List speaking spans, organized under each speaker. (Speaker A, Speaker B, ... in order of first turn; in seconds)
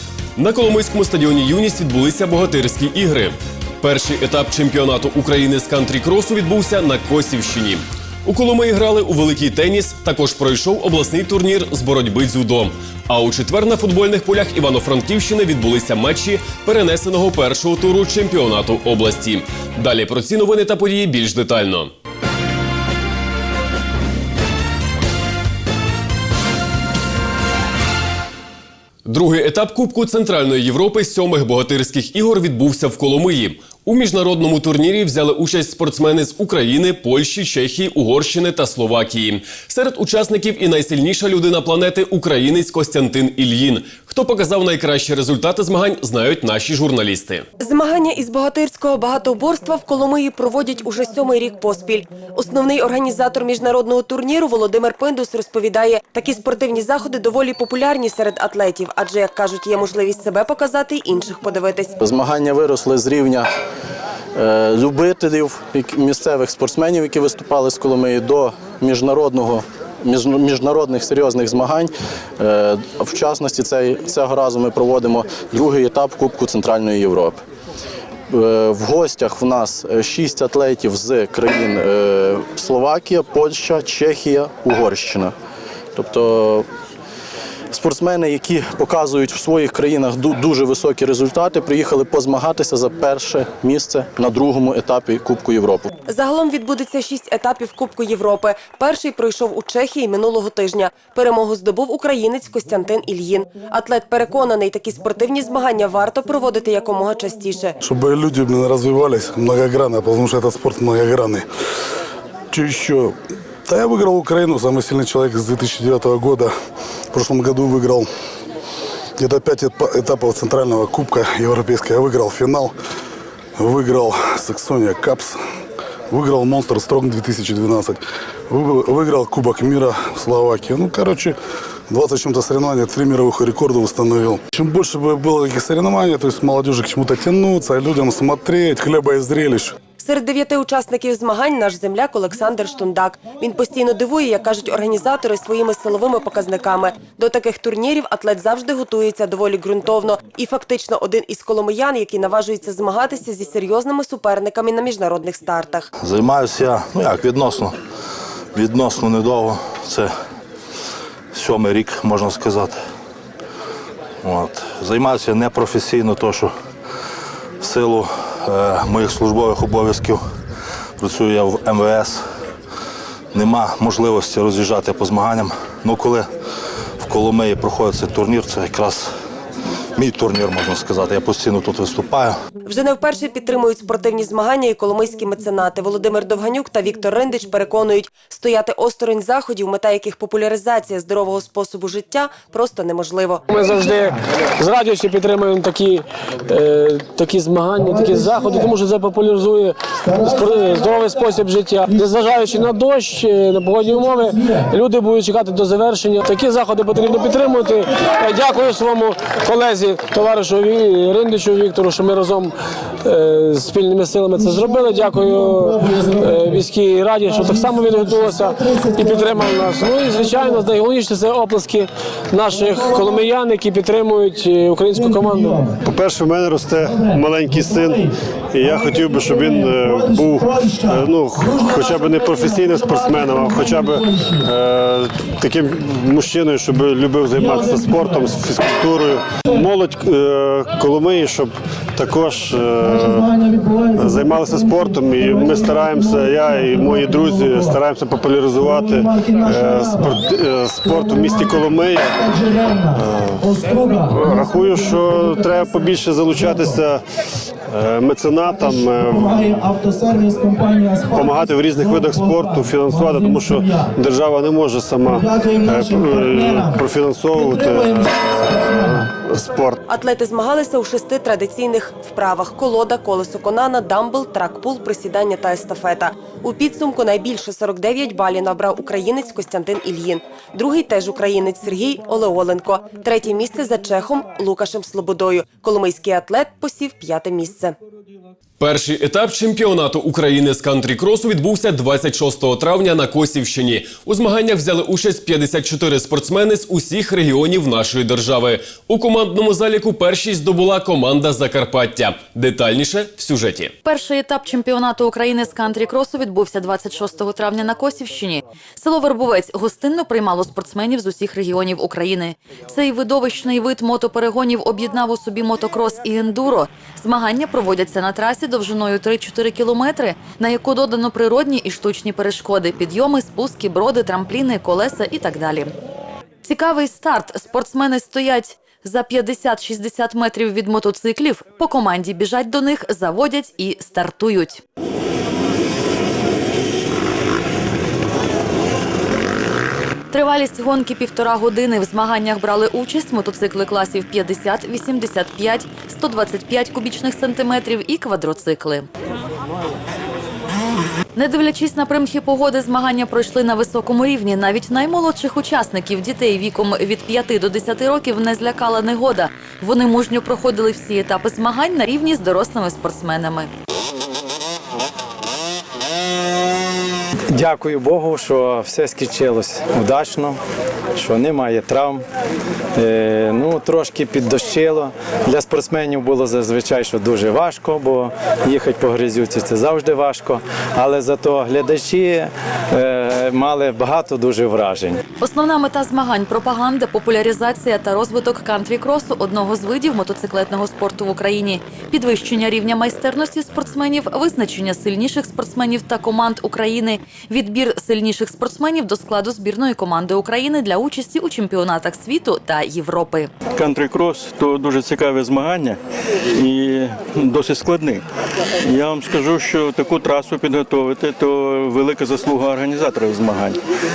Speaker A: 0.4-21.9, 29.1-47.5, 288.6-303.7
Speaker B: 47.6-62.0, 96.1-107.8, 140.0-155.9, 182.6-193.4, 269.9-287.8, 403.5-405.8, 406.3-408.0, 408.6-413.6
Speaker C: 62.0-63.5, 64.3-77.4, 78.3-85.3, 85.9-86.7, 87.7-95.9
Speaker D: 107.8-111.5, 112.5-113.1, 113.7-116.5, 117.1-118.1, 119.2-122.7, 123.6-125.4, 126.1-131.3, 131.9-139.8
Speaker E: 156.0-157.8, 158.5-160.1, 161.3-162.8, 164.2-166.5, 167.6-170.2, 171.0-172.2, 173.3-176.3, 177.0-179.1, 179.9-182.4
Speaker F: 193.5-225.7
Speaker G: 225.8-257.0, 257.7-269.8
Speaker H: 303.8-325.7, 326.4-334.6, 340.1-348.9, 351.1-363.5, 385.2-403.3
Speaker I: 367.3-370.4, 370.9-372.0, 372.7-385.0